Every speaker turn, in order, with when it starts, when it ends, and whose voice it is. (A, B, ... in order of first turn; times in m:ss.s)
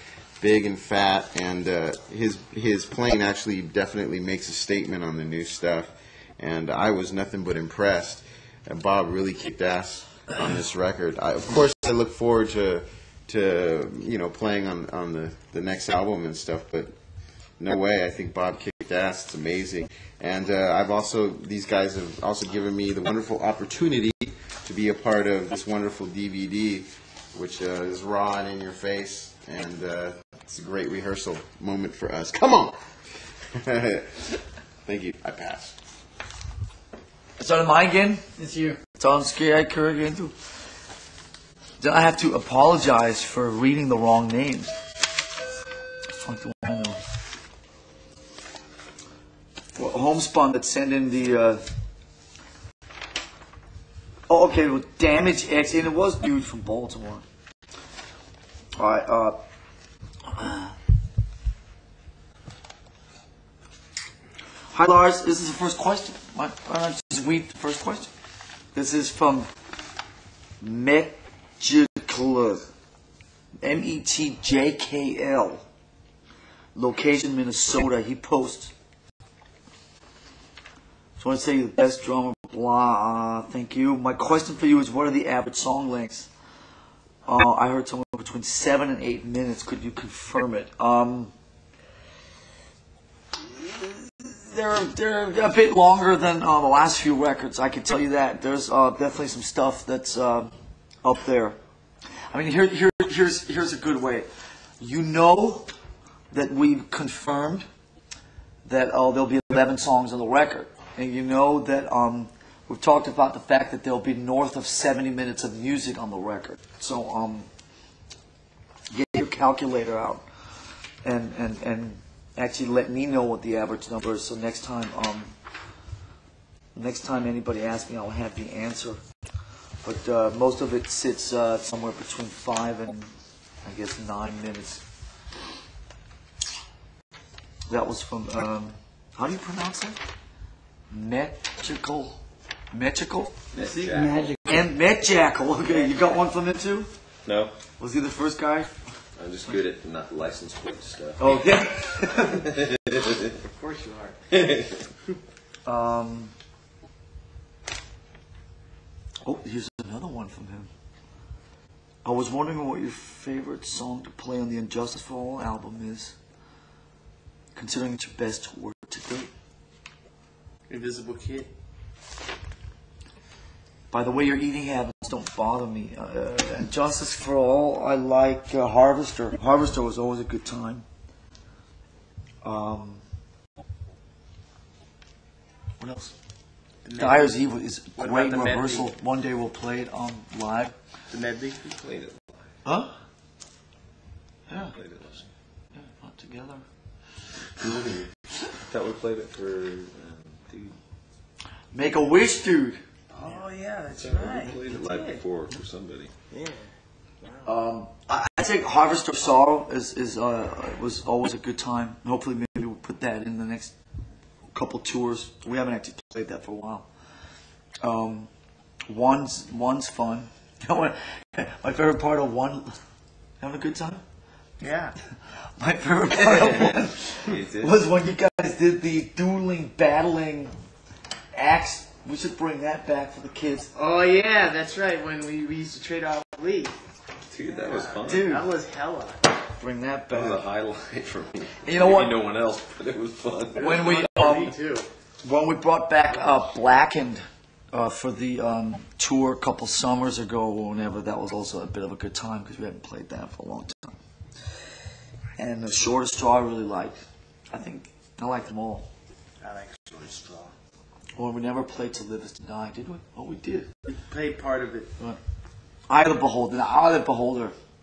0:00.4-0:16.9 A
0:17.6-0:32.8 A
0:33.5-0:34.3 A
0:34.8-0:35.8 A
0:37.4-0:40.3 B
0:41.8-0:44.7 B
0:46.1-0:47.0 B
0:49.8-0:51.6 B
0:54.3-0:57.2 B
0:58.8-0:59.4 B
1:00.4-1:00.7 B
1:04.7-1:08.1 B
1:08.7-1:09.5 B
1:10.6-1:12.7 B
1:13.6-1:15.6 B
1:16.8-1:18.7 B
1:21.2-1:26.3 B
1:27.3-1:31.3 B
1:33.5-1:40.5 B
1:41.0-1:41.6 B
1:42.3-1:44.3 B
1:44.8-1:45.7 B
1:46.3-1:47.7 B
1:48.7-1:57.5 B
1:58.9-2:00.2 B
2:01.0-2:05.3 B
2:06.8-2:09.0 B
2:09.8-2:13.1 B
2:13.6-2:14.8 B
2:17.7-2:20.0 B
2:20.9-2:22.2 B
2:22.7-2:23.4 B
2:23.5-2:24.4 C
2:24.3-2:26.9 B
2:27.2-2:27.5 C
2:27.8-2:28.8 B
2:29.2-2:31.6 C
2:31.2-2:32.5 B
2:32.2-2:33.4 C
2:33.4-2:34.2 D
2:34.3-2:34.9 C
2:35.7-2:36.3 B
2:39.2-2:40.7 B
2:42.0-2:46.2 B
2:47.6-2:49.3 B
2:50.7-2:51.5 D
2:53.9-3:00.8 B
3:02.4-3:03.0 B
3:05.8-3:06.2 B
3:06.8-3:07.4 D
3:07.0-3:10.8 B
3:08.0-3:08.9 D
3:11.1-3:11.6 D
3:11.6-3:12.5 C
3:12.6-3:12.9 B
3:14.5-3:14.8 B
3:14.7-3:15.3 C
3:15.8-3:16.6 B
3:17.6-3:17.9 C
3:18.7-3:20.8 C
3:21.7-3:22.8 B
3:23.2-3:25.2 D
3:24.0-3:26.1 C
3:26.3-3:26.7 D
3:27.4-3:33.7 B
3:34.5-3:36.9 B
3:37.8-3:38.3 B
3:38.9-3:42.7 B
3:43.4-3:44.0 B
3:44.6-3:45.0 D
3:45.6-3:50.5 B
3:46.2-3:47.9 C
3:51.3-3:53.7 B
3:53.8-3:56.8 D
3:57.3-3:58.4 C
3:57.7-3:59.2 D
3:58.1-3:58.4 B
3:59.6-4:00.4 B
4:00.1-4:03.9 C
4:01.6-4:02.2 B
4:03.6-4:04.5 B
4:03.6-4:04.9 D
4:05.2-4:14.0 B
4:15.4-4:18.9 B
4:19.4-4:20.5 D
4:21.2-4:23.7 B
4:23.9-4:24.9 D
4:25.9-4:27.6 B